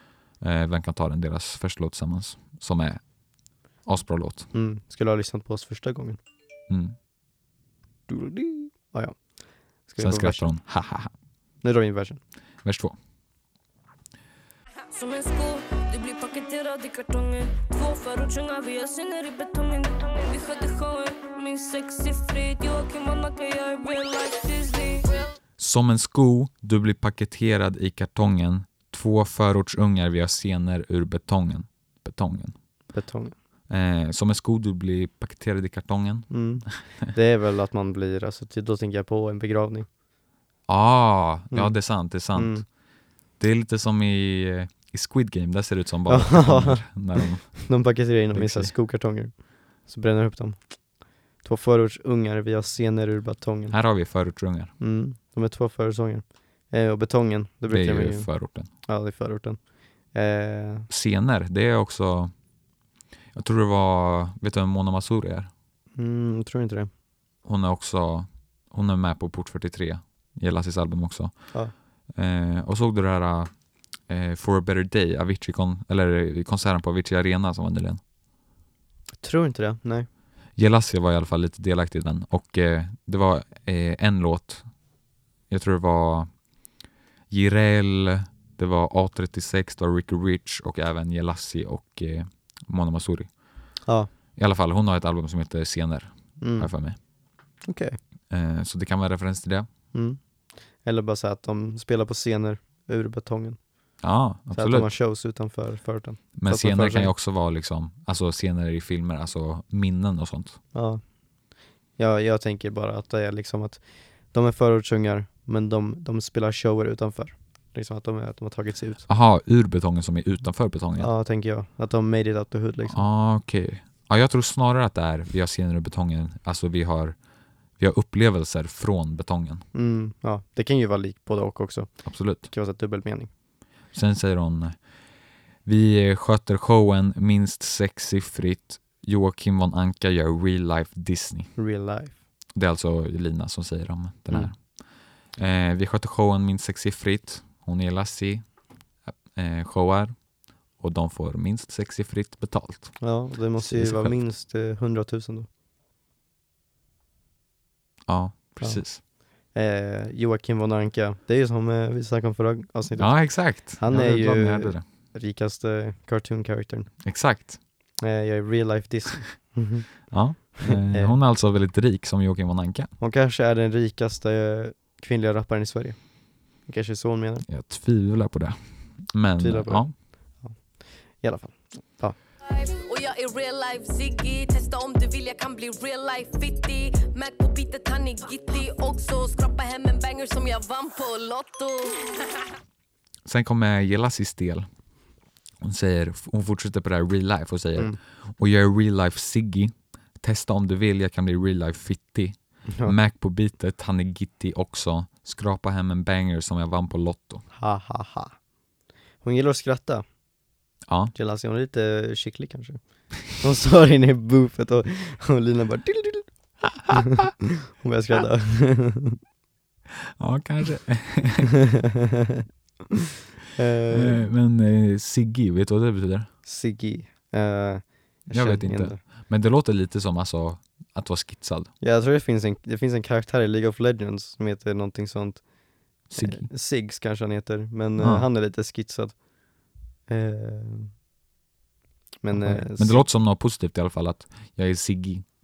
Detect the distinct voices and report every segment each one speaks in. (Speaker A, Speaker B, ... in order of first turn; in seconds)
Speaker A: 0.4-3.0, 3.8-4.5, 6.7-7.0, 10.0-11.1, 12.6-12.9, 25.6-32.5, 33.7-36.8, 40.7-42.7, 43.4-47.7, 48.3-48.7, 53.7-54.7, 57.7-58.7, 60.9-62.3, 63.3-65.5, 67.4-71.6, 72.1-78.0, 80.5-84.7, 85.5-86.3, 87.3-93.3, 94.3-97.0, 98.3-99.7, 104.0-104.9, 106.3-110.6, 119.1-121.1, 122.9-127.2, 127.8-129.6, 132.1-132.5, 133.9-134.9, 135.6-141.6, 142.5-150.3, 150.8-154.2, 158.1-159.0, 163.0-164.8, 167.0-167.6, 170.1-172.9, 177.4-179.9, 193.2-194.7, 195.6-207.4, 210.9-211.1, 220.2-221.5, 223.9-226.3, 228.3-231.7, 236.1-236.5, 238.0-238.3, 242.3-245.2
Speaker B: 4.5-6.2, 8.1-10.5, 11.6-12.2, 32.9-33.3, 36.3-39.9, 41.5-42.6, 46.1-53.8, 54.8-60.9, 66.0-66.9, 79.2-80.1, 96.4-96.7, 97.6-98.0, 99.9-100.2, 100.8-103.6, 104.5-107.1, 110.7-111.0, 112.0-119.0, 121.0-123.0, 129.7-133.3, 141.6-142.2, 153.0-155.5, 158.6-166.9, 168.0-171.2, 173.0-177.4, 179.4-182.2, 202.7-202.9, 207.5-208.4, 209.2-210.0, 211.1-216.3, 216.9-219.2, 223.5-224.3, 226.4-229.0, 231.8-239.2, 240.1-240.9, 242.2-243.0
Speaker C: 14.9-25.1
Speaker D: 182.8-191.9